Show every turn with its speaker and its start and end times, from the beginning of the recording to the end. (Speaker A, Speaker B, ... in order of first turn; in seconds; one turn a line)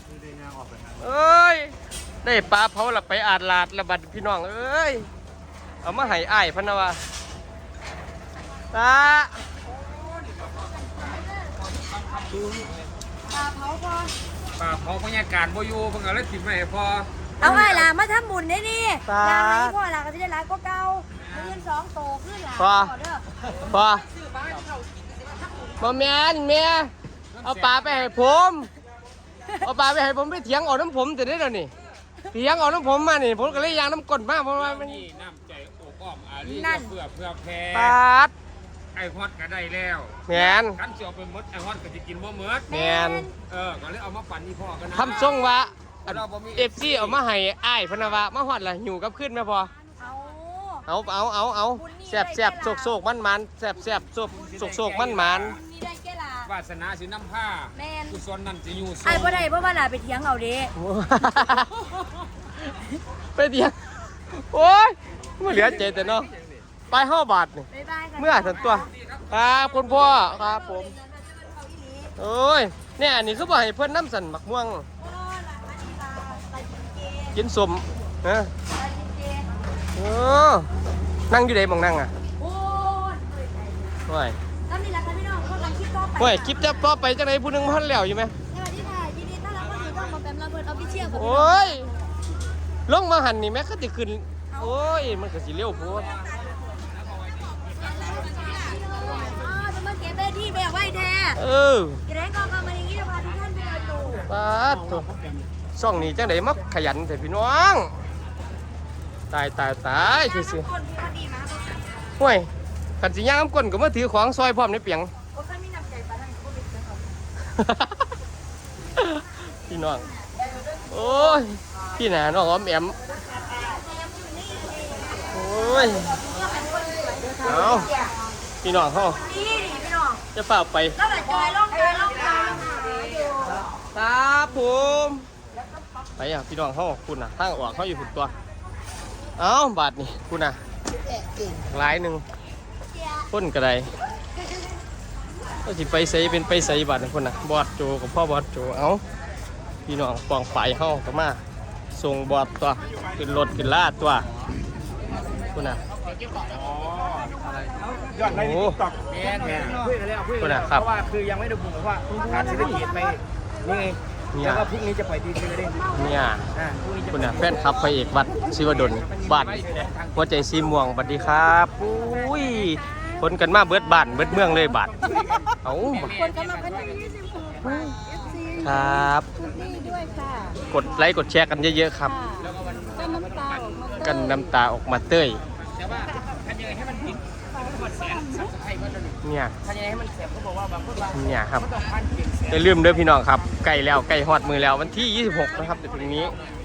Speaker A: 0.9-5.1
Speaker A: 5.8-7.0
Speaker A: 8.7-9.4
Speaker B: 10.9-11.5
Speaker B: 13.3-14.1
Speaker C: 14.6-17.1
Speaker A: 17.4-17.9
Speaker B: 17.4-23.2
Speaker A: 19.1-19.8
Speaker A: 22.6-22.9
Speaker A: 23.6-24.0
Speaker A: 25.8-26.9
Speaker C: 27.3-28.1
Speaker A: 27.4-28.7
Speaker A: 29.6-31.7
Speaker A: 32.3-35.0
Speaker C: 34.5-38.0
Speaker B: 36.4-37.0
Speaker A: 37.7-38.3
Speaker C: 38.9-42.7
Speaker A: 40.3-40.8
Speaker B: 42.7-43.3
Speaker A: 42.7-43.3
Speaker C: 43.5-45.4
Speaker A: 44.9-49.7
Speaker C: 46.0-47.2
Speaker B: 50.0-50.9
Speaker A: 50.9-55.6
Speaker B: 51.7-53.0
Speaker C: 54.3-55.5
Speaker B: 55.4-56.5
Speaker C: 56.5-59.4
Speaker B: 57.7-58.2
Speaker B: 59.0-60.7
Speaker A: 60.8-61.8
Speaker A: 63.4-66.3
Speaker A: 66.9-70.9
Speaker B: 67.7-68.9
Speaker C: 68.6-70.0
Speaker B: 69.8-72.1
Speaker A: 72.2-74.8
Speaker B: 75.0-77.4
Speaker A: 77.3-78.5
Speaker B: 78.7-79.5
Speaker A: 79.9-80.7
Speaker A: 81.3-82.1
Speaker B: 82.4-83.8
Speaker A: 84.1-84.4
Speaker B: 84.7-86.7
Speaker A: 86.2-88.3
Speaker B: 88.5-91.9
Speaker A: 91.0-91.9
Speaker A: 92.9-96.1
Speaker B: 94.5-95.1
Speaker B: 95.7-96.6
Speaker B: 97.6-101.4
Speaker C: 97.9-98.3
Speaker A: 101.3-102.0
Speaker B: 102.0-104.3
Speaker A: 104.3-105.1
Speaker A: 105.8-107.9
Speaker A: 109.3-110.7
Speaker B: 109.9-112.1
Speaker A: 112.2-112.5
Speaker A: 113.0-115.1
Speaker B: 115.3-117.1
Speaker A: 117.5-118.1
Speaker A: 119.0-120.1
Speaker B: 120.8-121.4
Speaker A: 120.9-123.0
Speaker B: 123.3-128.1
Speaker A: 125.3-126.2
Speaker A: 127.4-127.9
Speaker A: 128.6-129.2
Speaker B: 129.0-130.2
Speaker A: 130.3-131.0
Speaker B: 130.9-133.4
Speaker A: 133.9-135.2
Speaker A: 136.2-138.3
Speaker A: 139.4-140.6
Speaker A: 141.5-142.2
Speaker A: 143.3-143.8
Speaker A: 145.6-149.0
Speaker A: 149.8-151.4
Speaker A: 151.9-154.2
Speaker A: 155.5-155.8
Speaker C: 156.3-157.3
Speaker A: 158.2-158.8
Speaker C: 158.9-159.9
Speaker D: 159.2-165.8
Speaker A: 160.4-160.9
Speaker A: 162.2-162.8
Speaker C: 162.3-162.7
Speaker A: 164.3-164.7
Speaker A: 165.9-166.4
Speaker D: 166.6-167.2
Speaker A: 167.1-175.0
Speaker C: 168.9-170.1
Speaker A: 175.6-176.1
Speaker C: 175.9-177.0
Speaker B: 176.1-180.6
Speaker A: 177.6-177.9
Speaker A: 178.6-179.3
Speaker A: 180.7-182.1
Speaker B: 182.0-184.4
Speaker C: 182.4-183.8
Speaker A: 184.0-185.4
Speaker C: 185.7-192.5
Speaker A: 189.2-189.5
Speaker A: 191.1-191.7
Speaker A: 192.5-196.3